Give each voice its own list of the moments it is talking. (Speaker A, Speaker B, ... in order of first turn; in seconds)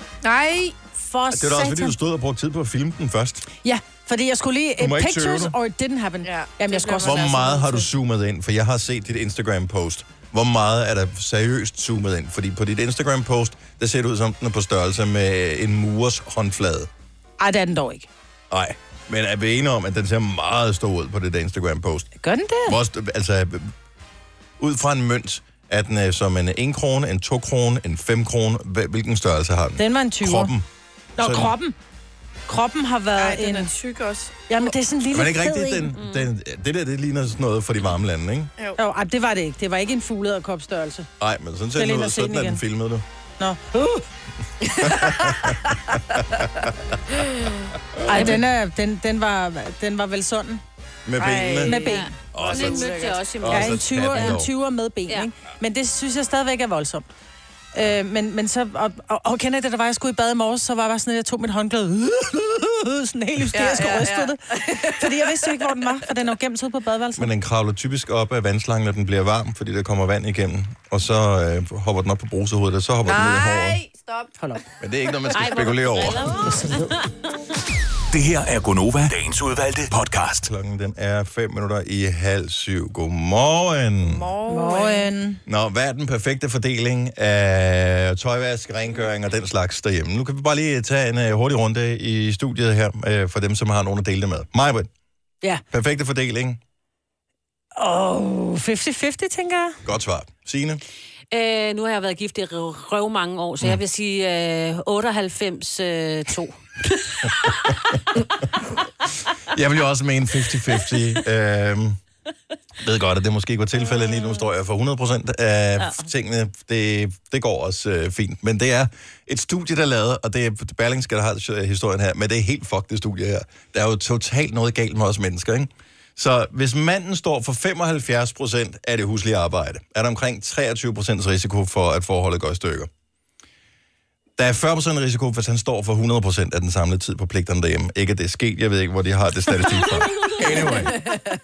Speaker A: 0.2-0.8, 6.2-7.9, 33.2-34.7, 44.8-45.2, 51.2-53.2, 63.5-65.8, 73.0-74.3, 84.0-85.1
Speaker B: 0.9-2.0, 3.6-7.3, 17.4-18.1, 22.2-22.8, 29.8-30.5, 31.2-31.8, 32.5-33.7, 34.5-35.9, 38.8-41.1, 41.8-42.6, 43.4-44.0, 48.1-50.6, 51.6-52.1, 53.5-57.1, 57.7-67.3, 76.4-77.0, 84.5-85.4, 97.8-99.8
Speaker C: 1.3-3.5, 4.8-5.5, 7.0-16.9, 18.5-22.1, 22.7-23.7, 24.6-30.7, 31.2-31.5, 35.1-38.5, 41.2-43.0, 44.8-46.7, 48.0-48.4, 51.1-51.8, 52.3-54.5, 67.2-73.8, 74.8-76.4, 80.4-84.3, 85.5-94.9, 95.7-96.6, 99.8-100.8, 109.5-112.0, 112.8-132.9, 134.4-141.0
Speaker D: 36.0-36.3, 51.8-54.4, 75.3-76.9, 101.3-106.6, 114.0-114.4
Speaker E: 78.1-80.5